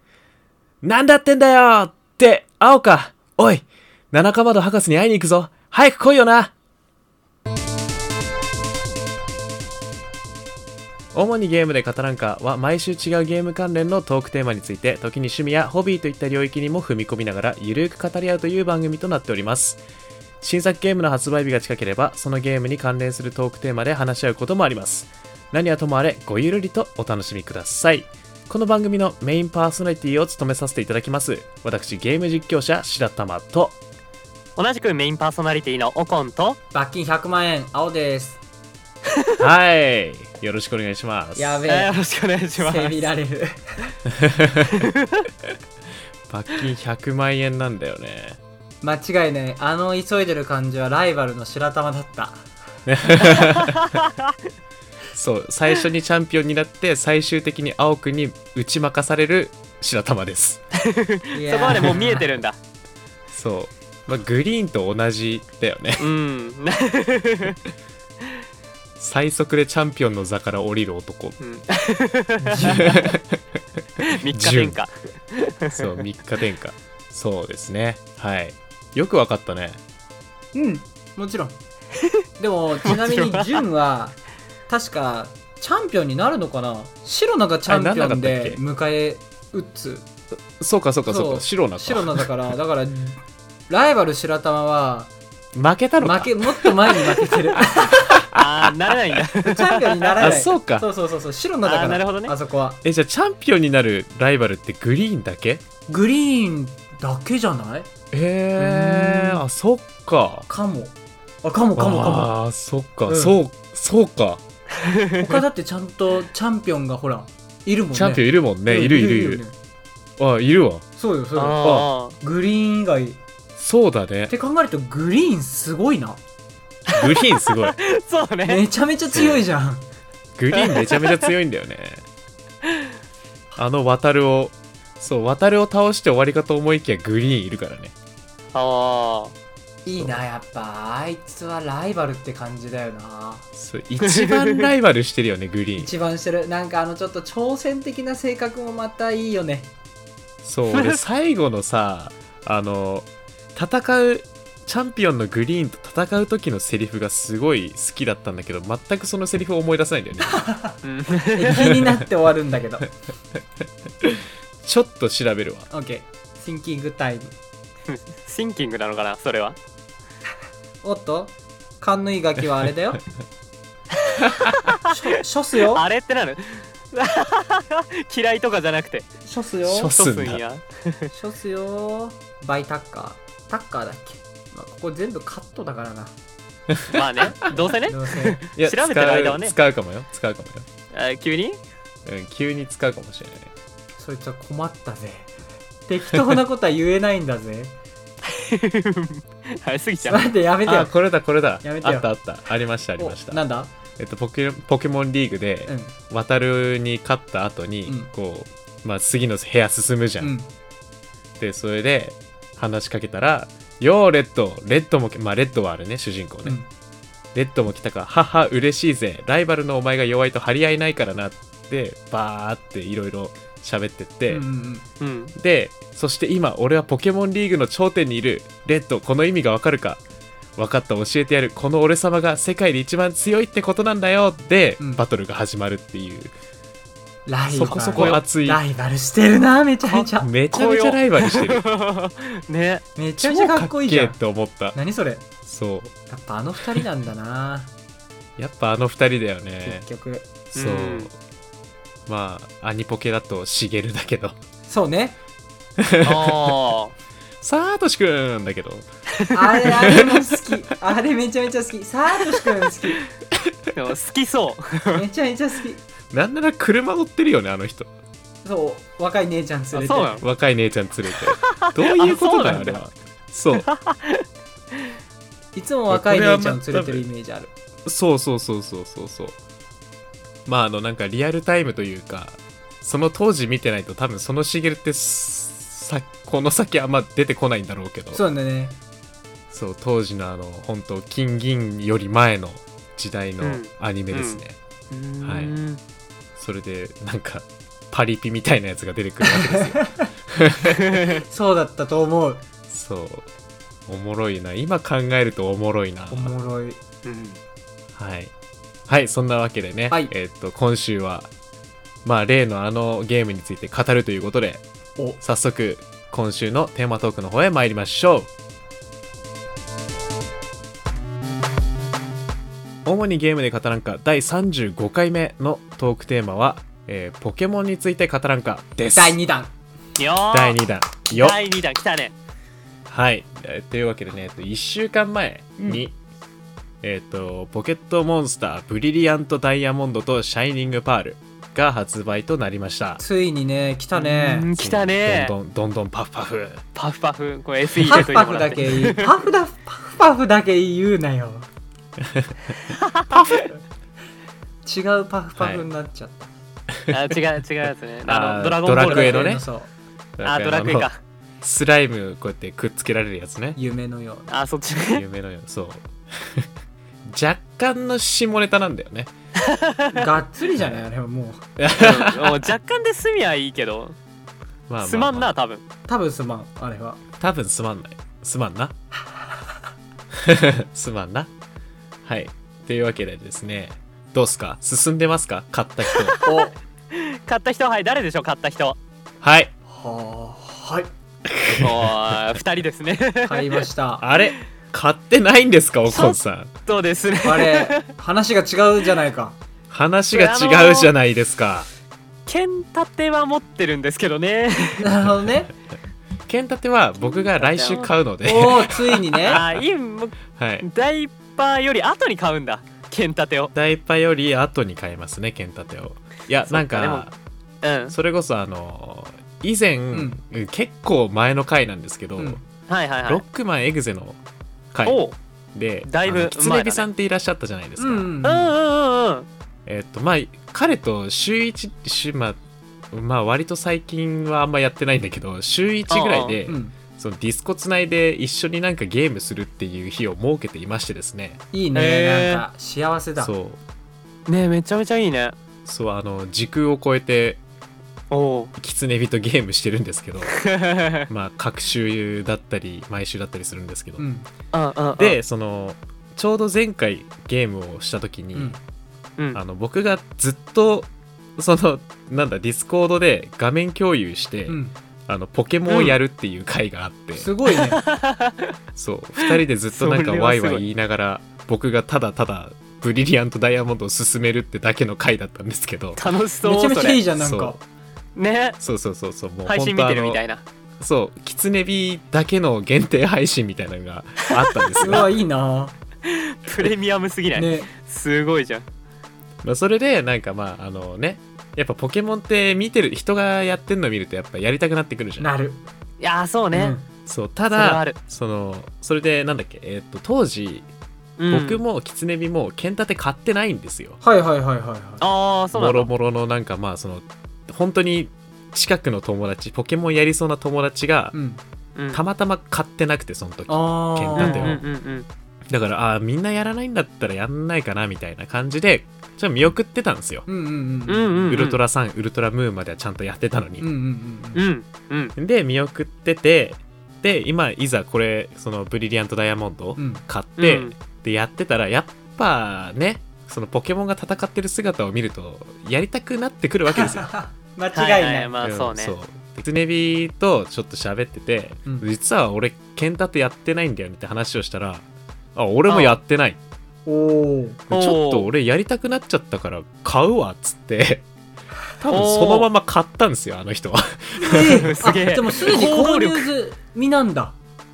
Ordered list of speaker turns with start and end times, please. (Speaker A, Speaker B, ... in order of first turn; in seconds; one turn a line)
Speaker A: 0.8-6.5
Speaker A: 11.1-19.8
Speaker A: 20.4-33.8
Speaker B: 34.5-36.6
Speaker C: 36.7-38.4
Speaker A: 39.4-41.6
Speaker C: 41.4-42.0
Speaker B: 41.7-43.1
Speaker C: 42.6-43.9
Speaker A: 44.1-44.8
Speaker B: 44.8-45.3
Speaker A: 46.3-48.4
Speaker C: 48.8-52.5
Speaker A: 52.9-54.0
Speaker C: 53.1-53.5
Speaker B: 53.6-54.3
Speaker A: 55.1-60.6
Speaker B: 60.8-62.6
Speaker C: 61.3-62.3
Speaker A: 63.3-66.1
Speaker B: 66.0-67.5
Speaker A: 69.0-71.4
Speaker B: 71.4-73.1
Speaker C: 72.4-72.9
Speaker A: 72.5-74.8
Speaker B: 74.0-76.0
Speaker A: 75.7-79.8
Speaker C: 80.5-81.6
Speaker C: 82.4-84.2
Speaker B: 82.8-83.6
Speaker C: 84.7-90.1
Speaker A: 87.7-88.6
Speaker A: 90.3-92.3
Speaker C: 91.0-95.1
Speaker A: 95.5-99.2
Speaker C: 96.0-98.2
Speaker B: 98.3-100.3
Speaker C: 99.4-102.8
Speaker A: 100.2-100.8
Speaker B: 101.6-102.3
Speaker A: 102.8-105.6
Speaker C: 105.9-107.9
Speaker A: 108.1-110.5
Speaker C: 108.6-109.4
Speaker C: 110.5-112.3
Speaker A: 111.8-114.4
Speaker C: 113.1-113.4
Speaker B: 114.8-115.4
Speaker C: 115.2-119.5
Speaker A: 117.9-119.4
Speaker A: 120.2-120.8
Speaker C: 121.0-123.2
Speaker B: 121.3-122.2
Speaker A: 121.6-121.9
Speaker A: 123.6-124.3
Speaker C: 124.3-126.2
Speaker B: 126.9-128.6
Speaker A: 126.9-127.8
Speaker C: 128.4-129.8
Speaker A: 129.1-129.4
Speaker A: 130.4-132.0
Speaker B: 130.5-131.3
Speaker A: 133.6-137.9
Speaker B: 138.5-139.3
Speaker C: 139.8-143.4
Speaker A: 143.5-145.9
Speaker B: 144.0-144.7
Speaker C: 145.8-149.7
Speaker A: 150.4-160.4
Speaker B: 150.7-151.0
Speaker C: 160.2-160.8
Speaker B: 160.8-161.7
Speaker C: 161.3-162.9
Speaker A: 161.6-162.0
Speaker A: 164.0-165.7
Speaker C: 165.7-167.3
Speaker B: 167.9-169.6
Speaker C: 170.8-173.0
Speaker B: 174.1-174.9
Speaker A: 174.2-174.6
Speaker C: 174.8-175.8
Speaker B: 175.6-179.1
Speaker C: 179.2-179.9
Speaker A: 179.6-180.4
Speaker B: 179.9-181.1
Speaker C: 181.1-186.1
Speaker B: 186.9-189.5
Speaker C: 187.4-188.4
Speaker A: 188.6-190.7
Speaker B: 190.9-191.6
Speaker A: 192.1-193.5
Speaker C: 194.0-195.3
Speaker C: 195.9-197.8
Speaker B: 198.2-200.3
Speaker C: 200.1-200.9
Speaker A: 200.7-203.4
Speaker C: 201.6-202.1
Speaker C: 203.0-203.7
Speaker A: 204.0-210.3
Speaker C: 205.7-205.9
Speaker C: 210.2-210.5
Speaker A: 211.4-216.6
Speaker A: 217.3-224.4
Speaker C: 224.3-224.8
Speaker B: 225.0-225.3
Speaker A: 225.3-230.0
Speaker A: 230.6-236.3
Speaker C: 234.8-235.0
Speaker C: 237.2-240.3
Speaker A: 237.5-238.6
Speaker B: 237.7-238.2
Speaker A: 239.9-241.6
Speaker B: 240.5-242.8
Speaker C: 242.9-244.2
Speaker A: 243.2-244.8
Speaker C: 244.7-245.2
Speaker A: 245.4-245.9
Speaker C: 246.1-247.7
Speaker A: 248.4-249.8
Speaker C: 249.6-250.2
Speaker A: 250.5-251.1
Speaker B: 250.5-251.1
Speaker A: 252.1-254.4
Speaker C: 254.7-255.2
Speaker A: 255.8-256.5
Speaker B: 256.0-256.9
Speaker A: 257.4-258.9
Speaker C: 259.3-263.0
Speaker A: 259.9-260.2
Speaker B: 263.8-265.1
Speaker C: 264.9-265.8
Speaker A: 266.1-267.9
Speaker C: 268.4-270.2
Speaker B: 269.8-270.2
Speaker A: 270.2-273.7
Speaker B: 271.3-272.8
Speaker B: 273.6-274.2
Speaker C: 275.6-277.5
Speaker A: 275.9-277.1
Speaker A: 277.9-279.4
Speaker A: 280.5-288.2
Speaker C: 288.1-288.8
Speaker A: 289.5-294.6
Speaker B: 293.4-295.8
Speaker A: 295.2-295.6
Speaker A: 296.4-300.9
Speaker C: 299.2-300.1
Speaker B: 300.8-301.2
Speaker C: 301.1-302.4
Speaker A: 302.7-303.3
Speaker A: 303.9-306.3
Speaker C: 306.1-306.8
Speaker B: 307.1-307.4
Speaker A: 308.0-308.3
Speaker A: 308.9-311.3
Speaker A: 312.1-314.6
Speaker A: 315.2-318.3
Speaker A: 322.9-329.2
Speaker C: 328.9-329.5
Speaker B: 330.0-330.6
Speaker A: 330.3-331.4
Speaker B: 331.1-332.1
Speaker A: 332.9-336.0
Speaker C: 335.6-335.8
Speaker A: 336.8-343.0
Speaker C: 343.0-344.5
Speaker B: 343.9-345.4
Speaker A: 344.6-346.6
Speaker B: 346.8-349.1
Speaker C: 347.8-351.5
Speaker A: 352.0-352.6
Speaker B: 352.8-353.3
Speaker A: 353.1-353.4
Speaker C: 354.6-356.3
Speaker A: 355.4-355.6
Speaker A: 356.8-357.1
Speaker B: 356.9-359.3
Speaker A: 358.1-359.4
Speaker C: 358.7-359.7
Speaker A: 360.2-360.9
Speaker B: 360.2-361.0
Speaker A: 361.4-363.6
Speaker C: 363.6-364.3
Speaker B: 364.3-365.0
Speaker A: 364.7-366.5
Speaker A: 367.1-369.1
Speaker B: 369.4-370.1
Speaker C: 369.9-371.4
Speaker A: 370.6-370.8
Speaker A: 371.6-372.5
Speaker B: 371.8-374.0
Speaker A: 374.7-375.4
Speaker B: 374.8-375.6
Speaker C: 375.9-377.0
Speaker A: 377.2-378.8
Speaker A: 380.2-381.3
Speaker A: 382.1-386.2
Speaker B: 385.9-388.8
Speaker C: 386.2-386.6
Speaker A: 389.2-389.5
Speaker C: 389.7-390.9
Speaker A: 391.2-392.1
Speaker B: 391.6-393.6
Speaker C: 393.2-394.0
Speaker A: 394.0-396.5
Speaker B: 395.9-397.8
Speaker C: 397.2-399.4
Speaker A: 399.7-401.7
Speaker B: 400.1-400.9
Speaker B: 402.3-404.9
Speaker C: 404.8-405.5
Speaker A: 406.3-409.6
Speaker B: 407.0-407.9
Speaker C: 408.2-409.4
Speaker B: 409.3-413.5
Speaker A: 410.3-410.7
Speaker A: 413.5-417.1
Speaker B: 416.4-417.1
Speaker B: 417.6-417.9
Speaker A: 417.9-422.4
Speaker C: 419.9-420.2
Speaker B: 422.7-423.2
Speaker A: 423.1-424.2
Speaker A: 424.7-425.0
Speaker B: 424.9-425.2
Speaker A: 425.5-428.1
Speaker B: 425.9-426.9
Speaker C: 427.8-428.5
Speaker B: 428.2-429.3
Speaker A: 429.7-432.4
Speaker A: 432.9-441.4
Speaker B: 435.9-436.4
Speaker C: 436.5-436.8
Speaker C: 441.5-443.3
Speaker B: 441.8-442.4
Speaker A: 443.2-443.6
Speaker B: 444.3-445.4
Speaker A: 445.7-447.4
Speaker B: 448.1-448.5
Speaker A: 448.6-450.4
Speaker B: 450.3-451.1
Speaker A: 451.1-454.0
Speaker C: 454.0-454.3
Speaker B: 454.5-455.2
Speaker A: 455.0-458.6
Speaker A: 459.3-467.3
Speaker C: 464.5-464.7
Speaker B: 465.7-466.0
Speaker C: 467.2-467.8
Speaker B: 467.5-468.5
Speaker A: 468.8-476.0
Speaker B: 469.2-470.6
Speaker B: 476.0-477.0
Speaker C: 476.4-477.6
Speaker A: 477.1-477.6
Speaker B: 478.2-478.6
Speaker A: 478.6-480.2
Speaker B: 479.5-480.4
Speaker A: 480.8-485.1
Speaker B: 484.4-485.1
Speaker C: 484.8-485.8
Speaker B: 486.1-488.7
Speaker C: 487.3-487.7
Speaker A: 489.4-495.3
Speaker C: 495.2-495.6
Speaker B: 496.0-496.8
Speaker C: 496.5-496.9
Speaker A: 497.1-500.7
Speaker B: 497.5-498.0
Speaker B: 501.2-501.6
Speaker A: 501.3-504.0
Speaker C: 504.0-505.0
Speaker B: 505.0-505.9
Speaker A: 505.5-511.1
Speaker C: 511.1-511.4
Speaker B: 511.8-512.0
Speaker A: 511.9-514.6
Speaker C: 513.5-514.6
Speaker B: 514.1-515.1
Speaker A: 515.5-520.2
Speaker C: 520.3-521.3
Speaker B: 520.9-521.6
Speaker A: 521.3-523.6
Speaker C: 523.6-524.4
Speaker B: 524.4-525.1
Speaker A: 525.2-537.1
Speaker C: 529.8-530.0
Speaker B: 530.4-530.7
Speaker C: 536.7-538.3
Speaker B: 537.7-539.0
Speaker A: 538.4-546.4
Speaker B: 545.7-546.0
Speaker C: 546.9-547.6
Speaker A: 547.7-551.1
Speaker B: 547.7-548.3
Speaker A: 551.8-554.6
Speaker B: 551.9-552.5
Speaker C: 554.2-557.4
Speaker B: 554.3-556.3